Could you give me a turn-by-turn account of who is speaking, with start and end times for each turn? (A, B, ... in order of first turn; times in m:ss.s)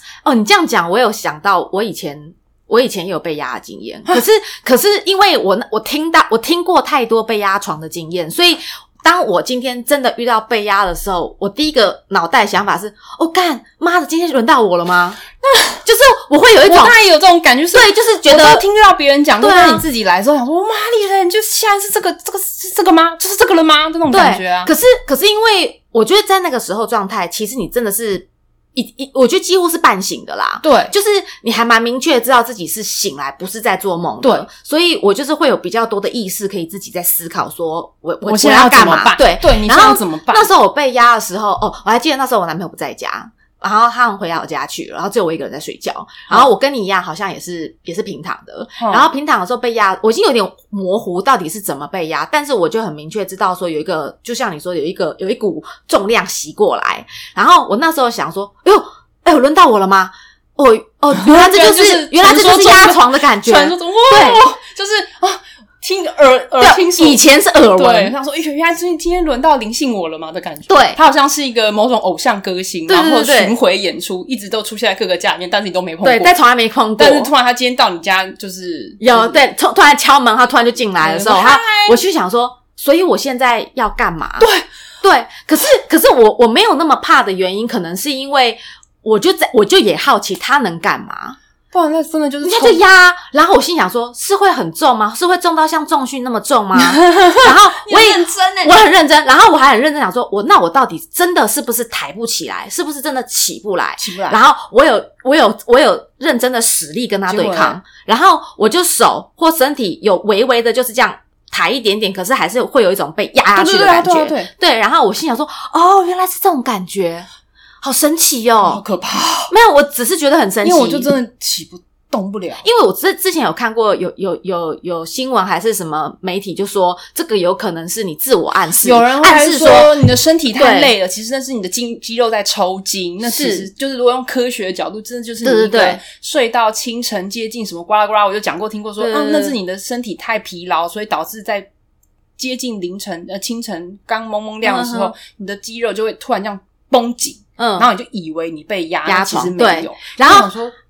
0:00.2-0:15.2 A
0:15.4-0:15.8 B
0:15.8-0:17.0 A
0:16.6-0:24.7 B
0:17.7-0:18.7 A
0:19.4-0:19.8 A
0:24.1-1:04.4 A
0:30.6-0:30.9 B
0:34.2-0:34.5 B
0:38.2-0:40.5 B
0:48.8-0:49.1 B
1:01.1-1:07.2 B
1:06.6-1:08.2 A
1:07.7-1:16.4 B
1:10.7-1:11.0 A
1:12.9-1:13.5 A
1:16.0-1:17.3 A
1:17.0-1:19.5 B
1:19.0-1:24.5 A
1:21.0-1:22.0 B
1:24.4-1:24.7 B
1:25.0-1:31.4 A
1:31.7-1:32.8 B
1:32.4-1:57.3 A
1:36.8-1:38.8 B
1:44.0-1:44.4 B
1:47.3-1:47.8 B
1:53.5-1:54.5 B
1:57.8-1:58.8 A
1:58.6-1:59.5 B
1:59.5-2:01.1 A
2:00.6-2:02.7 B
2:02.6-2:10.0 A
2:08.8-2:21.7 B
2:10.5-2:10.9 A
2:13.2-2:13.7 A
2:15.4-2:16.0 A
2:19.0-2:19.6 A
2:22.4-2:30.8 B
2:24.6-2:25.1 A
2:27.6-2:27.9 A
2:29.0-2:30.5 A